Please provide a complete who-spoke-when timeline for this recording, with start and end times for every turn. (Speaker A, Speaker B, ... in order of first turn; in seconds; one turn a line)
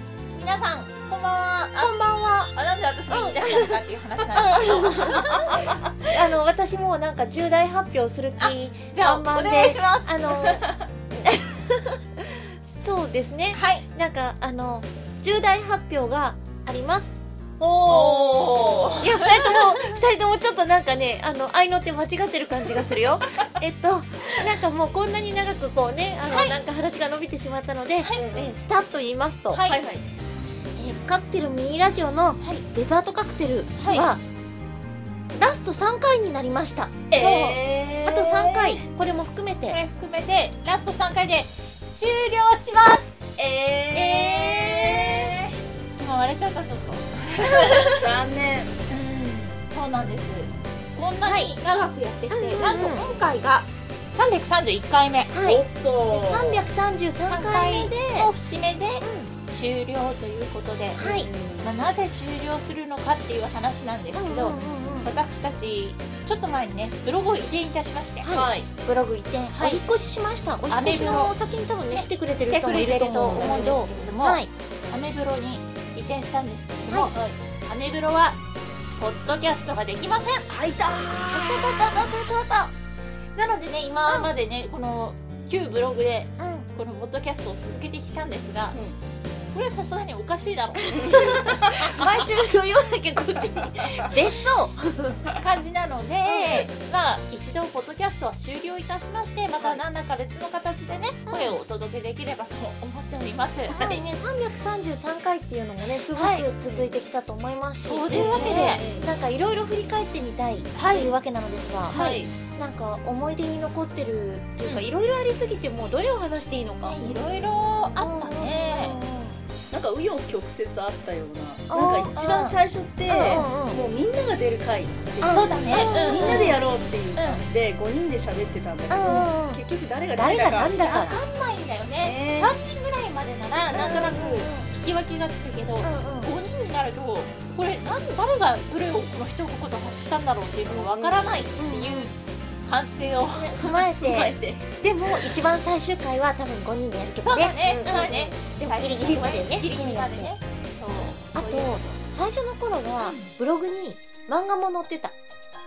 Speaker A: 0.3-5.5
Speaker B: 1.8-2.5
Speaker B: 3.1-3.8
Speaker B: 4.4-10.7
Speaker A: 8.4-10.4
Speaker B: 11.2-17.2
Speaker A: 13.5-13.8
Speaker A: 17.6-20.0
Speaker B: 17.9-29.6
Speaker C: 18.5-19.0
Speaker A: 26.3-26.6
Speaker A: 28.0-28.3
Speaker C: 28.1-28.6
Speaker A: 29.5-29.8
Speaker C: 29.7-30.1
Speaker B: 30.8-34.2
Speaker A: 32.4-32.6
Speaker A: 33.8-34.1
Speaker B: 35.3-39.8
Speaker C: 37.1-38.8
Speaker A: 39.7-43.1
Speaker C: 43.4-45.5
Speaker B: 43.9-45.1
Speaker A: 46.0-48.1
Speaker C: 47.9-48.7
Speaker A: 48.9-55.6
Speaker B: 51.2-51.6
Speaker B: 52.3-53.1
Speaker B: 55.3-58.3
Speaker C: 55.4-56.7
Speaker A: 57.3-68.3
Speaker B: 59.0-59.3
Speaker B: 61.0-61.3
Speaker C: 61.0-61.8
Speaker B: 64.1-65.2
Speaker B: 68.2-74.5
Speaker C: 68.3-68.7
Speaker A: 69.5-69.8
Speaker A: 70.7-71.3
Speaker A: 71.9-78.4
Speaker C: 73.3-73.8
Speaker A: 79.0-80.5
Speaker C: 80.5-82.3
Speaker B: 81.3-82.6
Speaker A: 81.5-82.2
Speaker A: 83.3-88.8
Speaker B: 84.0-84.3
Speaker B: 86.4-86.7
Speaker A: 89.5-91.7
Speaker C: 90.9-91.9
Speaker B: 91.1-95.2
Speaker A: 95.4-103.8
Speaker B: 96.2-96.7
Speaker B: 101.3-101.6
Speaker B: 103.7-119.3
Speaker C: 103.7-104.0
Speaker A: 106.1-106.5
Speaker C: 106.7-107.0
Speaker A: 107.9-108.8
Speaker C: 108.1-109.2
Speaker A: 110.8-111.2
Speaker A: 111.9-112.2
Speaker C: 111.9-112.3
Speaker A: 116.8-119.0
Speaker C: 119.7-131.1
Speaker B: 121.7-122.6
Speaker B: 123.1-123.8
Speaker B: 125.2-126.6
Speaker A: 125.3-126.6
Speaker A: 127.2-127.4
Speaker B: 128.9-129.6
Speaker A: 129.0-129.3
Speaker B: 130.2-131.2
Speaker A: 130.8-143.6
Speaker C: 132.0-132.6
Speaker C: 133.6-134.2
Speaker B: 133.8-134.7
Speaker B: 135.8-136.3
Speaker B: 140.7-142.1
Speaker B: 143.3-150.3
Speaker C: 143.6-145.4
Speaker A: 147.2-151.9
Speaker B: 151.3-155.2
Speaker A: 153.0-153.3